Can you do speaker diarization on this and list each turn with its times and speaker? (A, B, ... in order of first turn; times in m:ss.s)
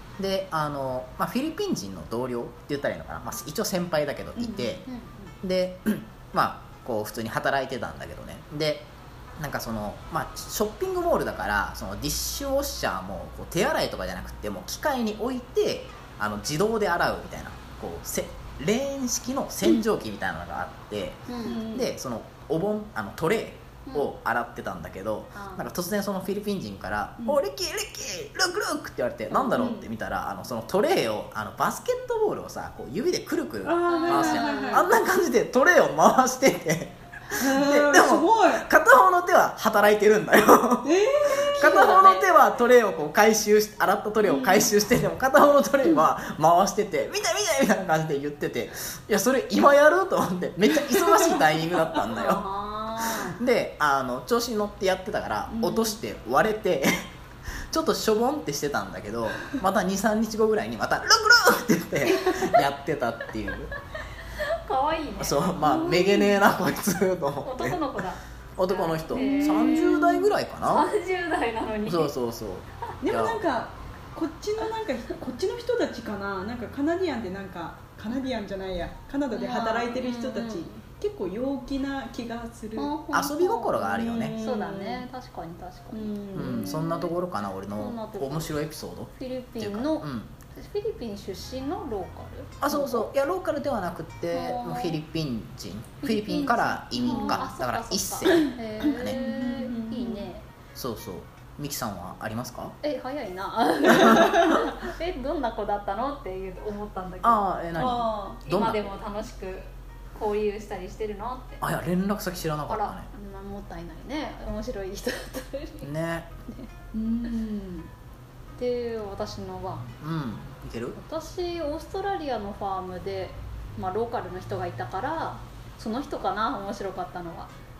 0:00.2-0:04.8 A
0:04.4-0:04.8 B
0:04.9-0:05.3 C
0:05.4-0:52.4 A
0:21.3-0:21.6 C
0:21.4-0:21.9 B
0:25.3-0:25.7 C
0:29.3-0:29.6 C
0:29.3-0:29.9 B
0:33.6-0:34.9 B
0:33.8-0:34.9 C
0:37.3-0:38.7 B
0:40.8-0:42.0 B
0:41.5-0:42.3 C
0:44.2-0:44.8 B
0:51.0-0:51.4 B
0:52.0-0:53.4 C
0:53.0-0:56.9 A
0:55.5-0:56.0 B
0:57.7-1:03.7 A
1:02.2-1:02.6 C
1:04.4-1:05.5 C
1:05.2-1:07.8 A
1:05.6-1:06.4 B
1:07.4-1:12.1 C
1:08.6-1:10.9 A
1:09.1-1:09.7 B
1:11.8-1:13.4 A
1:13.0-1:22.9 B
1:19.3-1:20.8 C
1:22.8-1:27.1 C
1:23.1-1:24.4 A
1:24.0-1:25.0 B
1:25.9-1:26.9 B
1:26.3-1:30.3 A
1:27.8-1:28.6 C
1:29.1-1:33.1 C
1:32.6-1:39.2 A
1:34.3-1:35.0 C
1:36.0-1:40.4 C
1:37.0-1:37.4 B
1:38.3-1:40.3 B
1:40.7-1:42.8 A
1:42.8-1:51.6 C
1:47.2-1:49.0 A
1:47.8-1:48.4 B
1:51.6-1:53.1 A
1:52.7-1:55.9 C
1:55.8-1:56.3 A
1:56.9-1:57.9 B
1:58.6-1:59.9 C
1:59.9-2:01.0 A
2:01.0-2:07.5 C